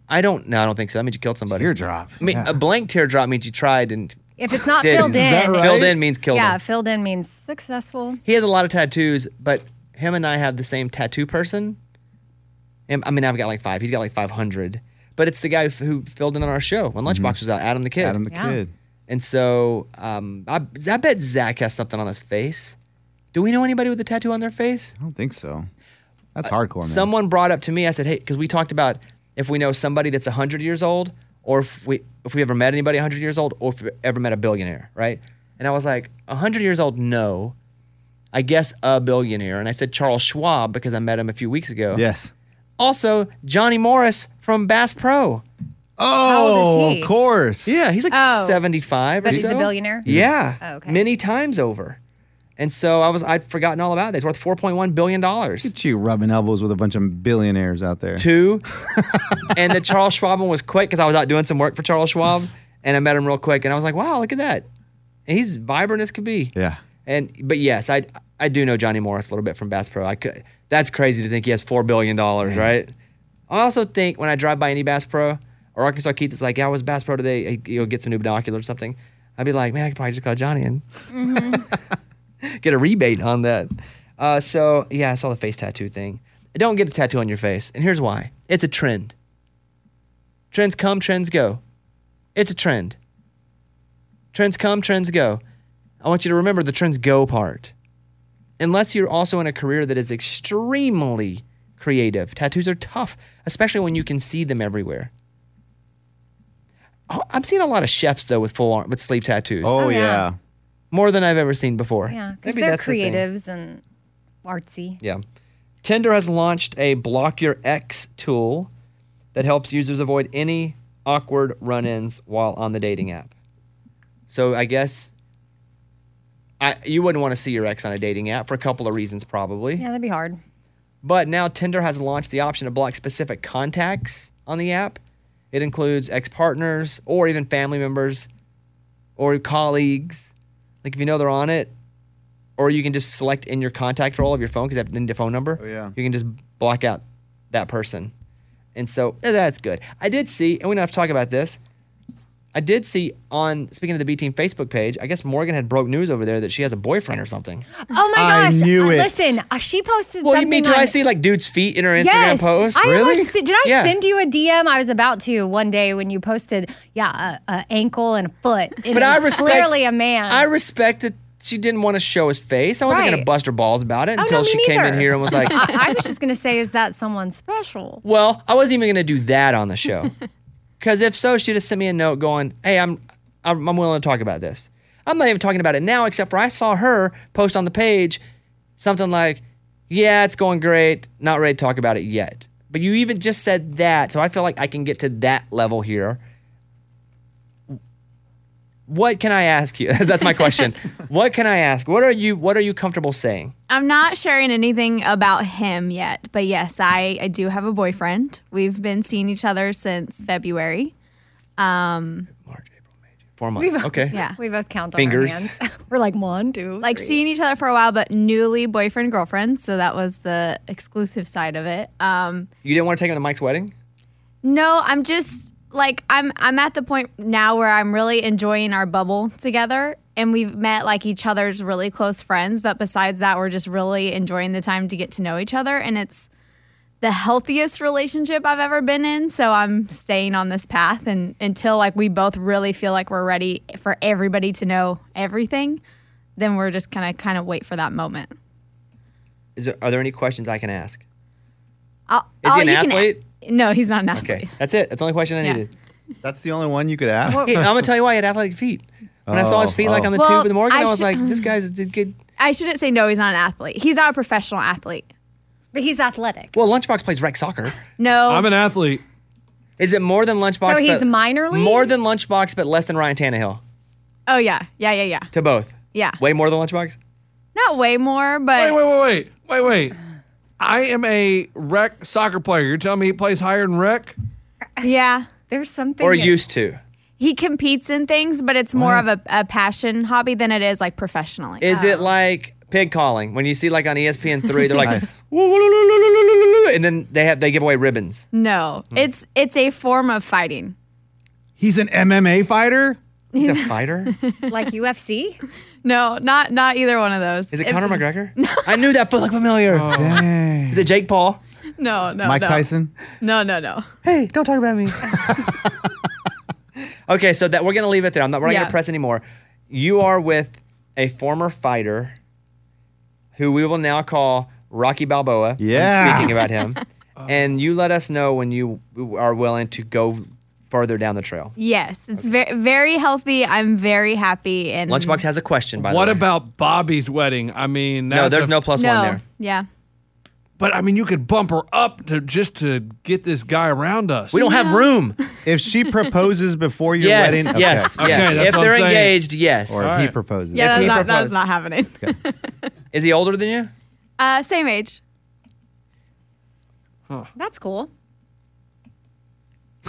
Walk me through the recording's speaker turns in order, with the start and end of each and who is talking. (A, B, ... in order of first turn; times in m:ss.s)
0:00.1-0:04.2 A
0:01.5-0:02.6 B
0:04.4-0:05.7 C
0:04.8-0:06.6 A
0:04.8-0:06.0 B
0:06.3-0:08.2 C
0:08.3-0:11.8 A
0:12.9-0:18.2 A
0:17.1-0:17.4 B
0:18.0-0:18.7 B
0:18.3-0:18.6 C
0:19.1-0:22.8 A
0:23.3-0:25.0 A
0:25.0-0:25.7 B
0:26.4-0:27.1 B
0:26.5-0:37.6 A
0:38.3-0:42.0 A
0:41.9-0:42.3 B
0:42.8-0:45.4 A
0:46.0-0:47.9 B
0:46.2-0:47.1 C
0:47.6-0:52.0 A
0:48.1-0:48.6 D
0:49.2-0:50.0 C
0:49.3-0:50.3 B
0:50.6-0:51.0 C
0:52.6-0:55.7 A
0:55.6-0:59.6 B
0:58.2-0:58.7 A
0:59.5-1:04.7 A
1:05.3-1:06.5 A
1:06.6-1:06.8 B
1:07.1-1:12.9 A
1:13.5-1:21.7 A
1:21.1-1:21.7 C
1:22.4-1:29.1 A
1:30.5-1:31.6 A
1:32.4-1:33.0 A
1:34.3-1:35.4 A
1:36.0-1:37.7 A
1:38.6-1:45.1 A
1:47.1-1:49.8 A
1:49.6-1:50.4 B
1:49.8-1:50.3 C
1:50.9-1:53.2 A
1:52.1-1:53.8 C
1:54.4-1:55.0 C
1:55.8-1:58.7 A
1:59.4-2:03.3 A
2:04.3-2:05.1 A
2:06.6-2:09.8 A
2:09.8-2:10.4 C
2:11.0-2:15.0 A
2:15.5-2:18.3 A
2:19.2-2:20.3 A
2:20.8-2:21.7 A
2:22.6-2:28.1 A
2:25.6-2:25.9 B
2:28.8-2:31.6 A
2:32.5-2:37.6 A
2:37.9-2:40.9 C
2:38.1-2:39.4 B
2:40.2-2:43.0 A
2:42.0-2:50.5 C
2:42.8-2:43.3 B
2:43.6-2:44.0 A
2:48.9-2:49.8 A
2:48.9-2:49.2 D
2:50.3-2:55.7 A
2:52.9-2:53.3 C
2:54.2-2:58.0 C
2:58.0-3:00.2 A
3:00.8-3:08.2 A
3:08.8-3:16.2 A
3:18.9-3:23.5 A
3:23.7-3:30.9 D
3:31.6-3:32.3 D
3:32.4-3:32.8 A
3:33.4-3:34.2 A
3:33.6-3:37.2 C
3:34.1-3:34.4 D
3:35.0-3:35.6 A
3:36.8-3:42.5 D
3:42.6-3:43.7 A
3:44.4-3:56.3 D
3:57.0-4:05.8 D
4:06.4-4:08.4 D
4:09.6-4:11.0 A
4:12.1-4:14.5 D
4:12.4-4:13.2 A
4:14.1-4:15.7 A
4:16.2-4:17.5 B
4:17.3-4:22.2 A
4:19.3-4:20.1 B
4:20.1-4:21.4 D
4:22.4-4:25.1 D
4:25.7-4:26.6 C
4:26.5-4:27.8 A
4:28.0-4:28.5 D
4:28.3-4:29.0 E
4:29.8-4:33.6 A
4:30.6-4:31.9 C
4:34.3-4:35.3 D
4:35.3-4:37.0 A
4:37.6-4:38.8 D
4:38.5-4:40.0 E
4:40.6-4:44.2 E
4:44.8-4:45.3 D
4:45.5-4:46.4 C
4:46.0-4:46.8 A
4:47.2-4:51.8 D
4:48.8-4:49.0 B
4:51.6-4:58.3 A
4:51.7-4:52.0 C
4:54.8-4:55.2 B
4:58.3-5:00.8 D
5:01.6-5:03.0 B
5:03.4-5:04.6 D
5:03.4-5:04.2 A
5:04.5-5:05.4 C
5:05.8-5:08.8 D
5:07.5-5:11.4 A
5:09.7-5:10.2 E
5:09.9-5:10.9 B
5:11.8-5:12.7 D
5:12.2-5:12.9 B
5:13.2-5:13.9 D
5:14.0-5:15.6 A
5:15.3-5:15.9 B
5:17.1-5:22.2 A
5:18.4-5:18.7 D
5:23.4-5:31.5 A
5:25.6-5:26.4 B
5:31.6-5:35.2 D
5:34.9-5:36.2 A
5:35.8-5:38.7 E
5:38.1-5:39.2 A
5:38.8-5:39.7 D
5:40.6-5:44.4 E
5:44.3-5:45.2 A
5:44.3-5:45.3 D
5:45.4-5:48.7 B
5:47.0-5:50.0 A
5:47.7-5:49.2 E
5:49.7-5:51.0 B
5:49.8-5:50.2 E
5:50.5-5:51.4 A
5:50.5-5:52.5 D
5:52.9-5:53.7 A
5:54.2-5:55.0 D
5:57.4-5:57.9 C